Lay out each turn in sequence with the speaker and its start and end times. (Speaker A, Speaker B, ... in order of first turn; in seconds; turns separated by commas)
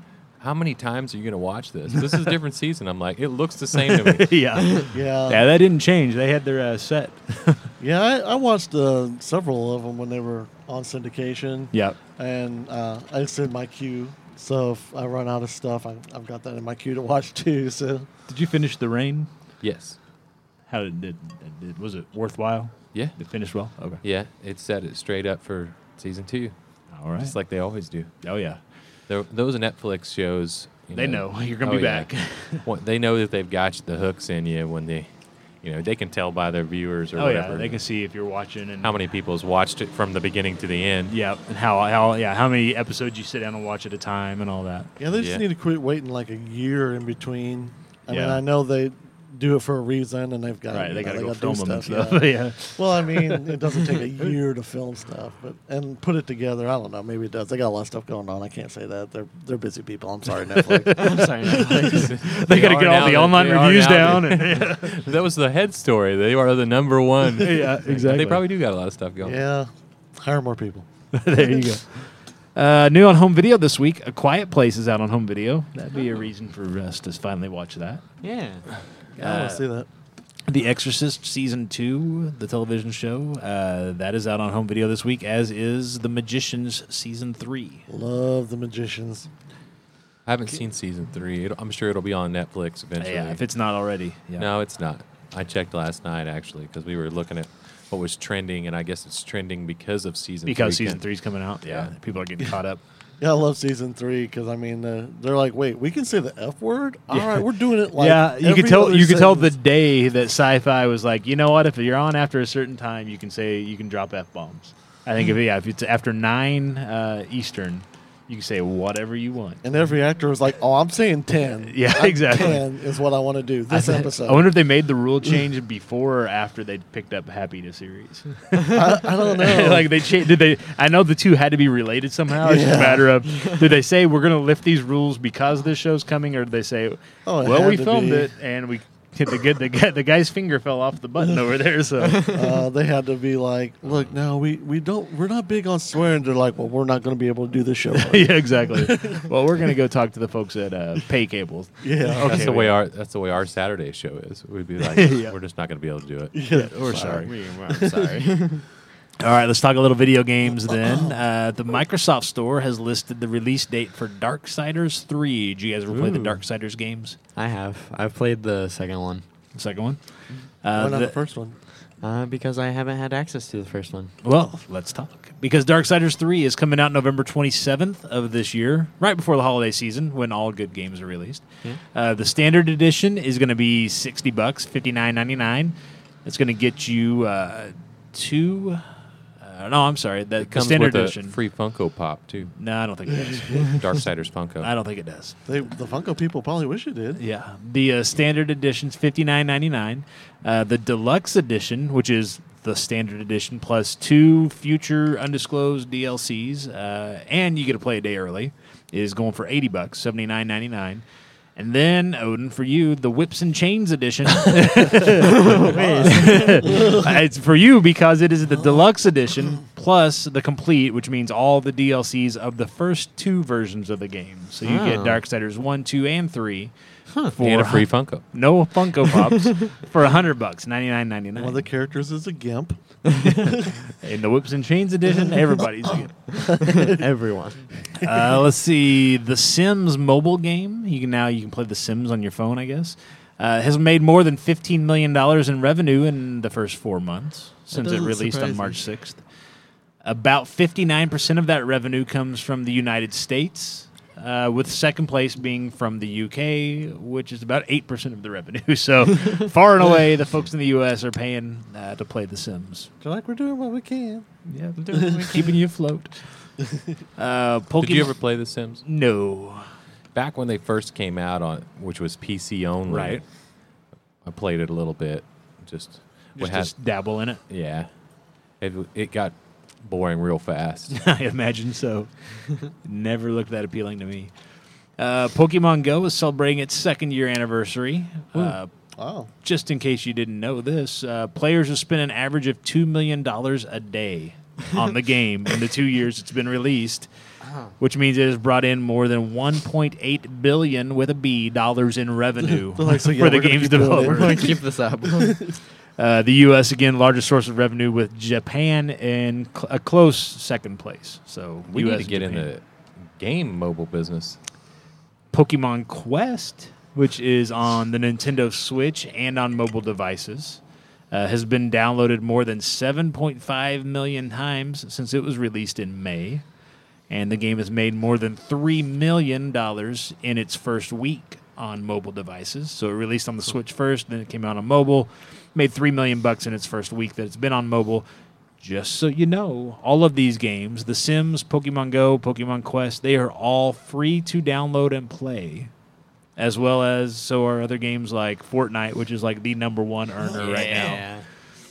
Speaker A: 0.4-4.3, Speaker B: 3.8-7.7, Speaker C: 4.9-5.4, Speaker C: 7.8-18.1, Speaker B: 18.3-19.3, Speaker A: 19.6-20.0, Speaker B: 20.7-24.0, Speaker A: 24.0-26.5, Speaker B: 26.9-27.3, Speaker A: 27.2-28.1, Speaker B: 28.2-28.6, Speaker A: 29.1-35.1, Speaker B: 30.9-32.6, Speaker A: 35.6-37.8, Speaker B: 37.1-38.9, Speaker A: 38.8-41.1, Speaker B: 41.1-44.9, Speaker C: 45.0-61.3, Speaker A: 45.1-45.4, Speaker B: 48.1-48.4, Speaker B: 50.7-53.5, Speaker B: 60.6-65.0, Speaker D: 60.9-62.2, Speaker A: 61.9-69.4, Speaker B: 67.4-68.4, Speaker C: 69.2-70.8, Speaker B: 71.1-78.0, Speaker D: 78.2-78.6, Speaker C: 79.2-79.9, Speaker B: 79.2-79.6, Speaker B: 80.5-87.8, Speaker C: 87.9-89.3, Speaker A: 90.2-93.4, Speaker B: 93.0-94.5, Speaker A: 94.4-101.0, Speaker B: 100.5-102.8, Speaker C: 103.2-109.5, Speaker B: 107.1-119.6, Speaker C: 119.6-124.5, Speaker B: 121.6-122.6, Speaker B: 123.7-142.3, Speaker C: 128.7-130.0, Speaker C: 132.3-133.2, Speaker C: 137.2-138.3, Speaker D: 142.1-142.5, Speaker C: 142.2-149.3, Speaker B: 147.9-152.8, Speaker C: 151.8-152.5, Speaker A: 152.2-156.4, Speaker B: 154.9-155.3, Speaker C: 156.3-158.2, Speaker B: 156.5-157.3, Speaker D: 156.9-158.7, Speaker B: 159.2-167.2, Speaker C: 160.7-161.1, Speaker D: 165.9-166.4, Speaker D: 167.3-169.2, Speaker B: 169.5-171.2, Speaker C: 170.7-171.6, Speaker D: 172.0-174.1, Speaker B: 174.2-188.8, Speaker B: 189.4-191.4, Speaker A: 190.4-192.5, Speaker B: 192.6-193.8, Speaker C: 193.3-193.6, Speaker A: 193.6-194.7, Speaker B: 194.6-195.3, Speaker C: 195.4-197.2, Speaker B: 197.2-211.0, Speaker B: 211.6-226.7, Speaker D: 215.2-216.9, Speaker C: 215.3-217.1, Speaker D: 224.6-225.2, Speaker B: 227.2-231.6, Speaker A: 227.4-228.2, Speaker C: 231.3-233.8, Speaker D: 233.1-233.4, Speaker B: 234.0-236.1, Speaker C: 236.3-237.0, Speaker D: 236.4-237.7, Speaker B: 238.0-249.2, Speaker D: 247.7-248.8, Speaker B: 250.0-262.9, Speaker C: 263.0-264.3, Speaker B: 264.5-266.2, Speaker D: 264.8-265.6, Speaker C: 264.9-265.2, Speaker B: 267.2-268.1, Speaker A: 267.8-268.8, Speaker B: 268.8-269.7, Speaker A: 270.1-273.2, Speaker B: 272.9-273.2, Speaker A: 274.2-276.8, Speaker B: 276.4-277.4, Speaker A: 277.5-277.9, Speaker A: 278.6-281.0, Speaker B: 280.9-284.3, Speaker B: 285.0-288.7, Speaker C: 288.3-289.3, Speaker B: 289.4-297.1, Speaker D: 297.4-297.7, Speaker B: 297.8-304.5, Speaker C: 302.6-305.5, Speaker D: 304.0-305.5, Speaker B: 306.0-312.5, Speaker A: 311.7-312.6, Speaker A: 313.1-314.4, Speaker B: 315.3-326.4, Speaker B: 327.1-338.1, Speaker B: 338.6-345.7, Speaker B: 346.4-351.1, Speaker D: 350.3-351.2